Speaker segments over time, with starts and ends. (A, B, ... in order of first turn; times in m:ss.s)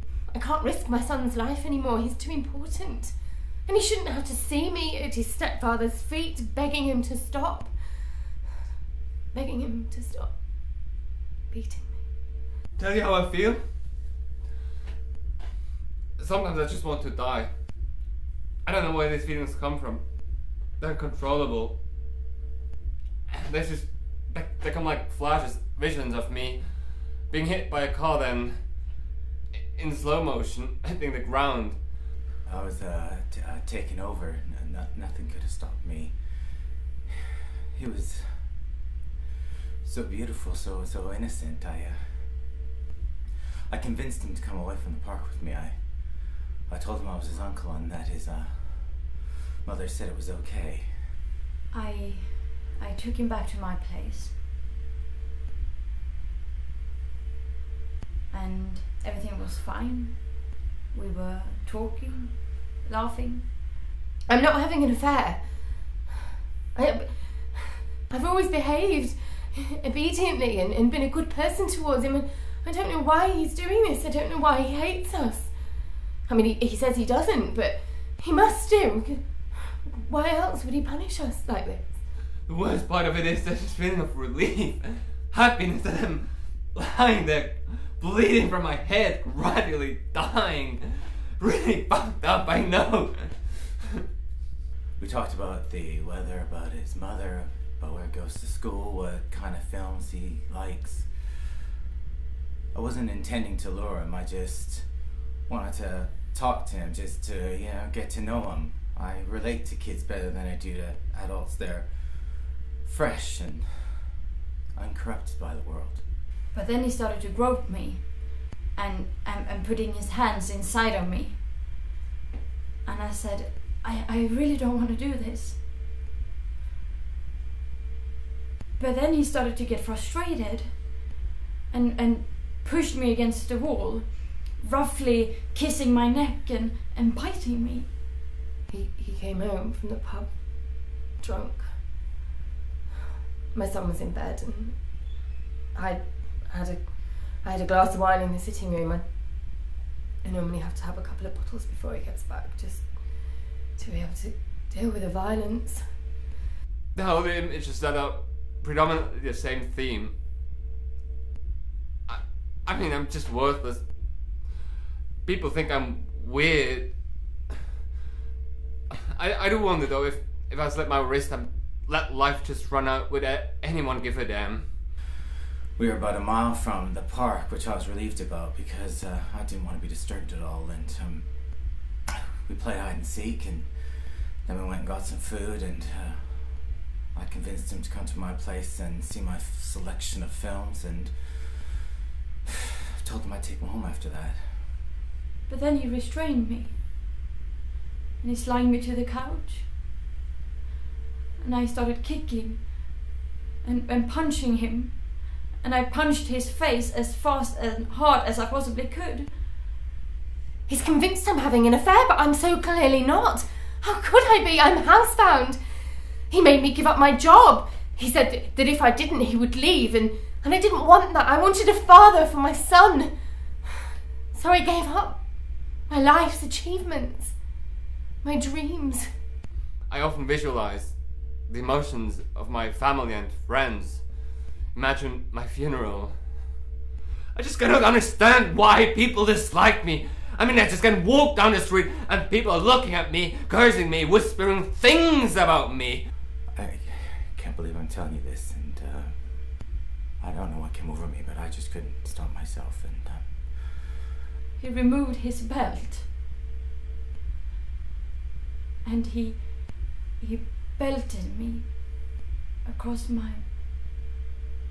0:00.3-0:08.2 A
0:09.3-0:10.9 A
0:11.5-0:12.0 A
0:12.8-0:13.6 B
0:16.2-0:17.5 B
0:18.6-0:21.8 B
0:23.3-0:31.8 B
0:32.4-0:37.2 C
0:37.7-0:38.6 C
0:39.8-0:42.3 C
0:43.7-0:51.1 C
0:51.7-0:54.4 D
0:58.3-1:03.5 D
1:04.3-1:05.9 A
1:06.8-1:22.0 A
1:22.4-1:33.8 B
1:35.0-1:41.6 C
1:42.7-1:44.9 C
1:45.5-1:53.8 C
1:54.8-1:56.0 C
1:56.5-2:01.5 D
2:02.8-2:05.6 D
2:08.8-2:11.1 D
2:11.7-2:17.9 D
2:18.7-2:21.8 A
2:23.5-2:25.1 A
2:25.7-2:29.6 A
2:30.2-2:35.8 A
2:36.9-2:40.2 B
2:42.1-2:43.9 B
2:45.2-2:47.0 B
2:48.9-2:54.7 B
2:55.8-3:11.6 C
3:13.0-3:14.8 C
3:15.5-3:16.8 D
3:18.2-3:19.7 D
3:21.4-3:23.1 D
3:23.6-3:29.4 D
3:30.7-3:35.6 A
3:36.3-3:43.1 A
3:44.3-3:47.4 A
3:48.2-3:49.1 A
3:49.9-3:56.4 B
3:57.3-4:06.1 B
4:06.5-4:09.6 C
4:10.2-4:13.9 C
4:14.6-4:16.1 D
4:18.8-4:22.0 D
4:22.6-4:23.5 D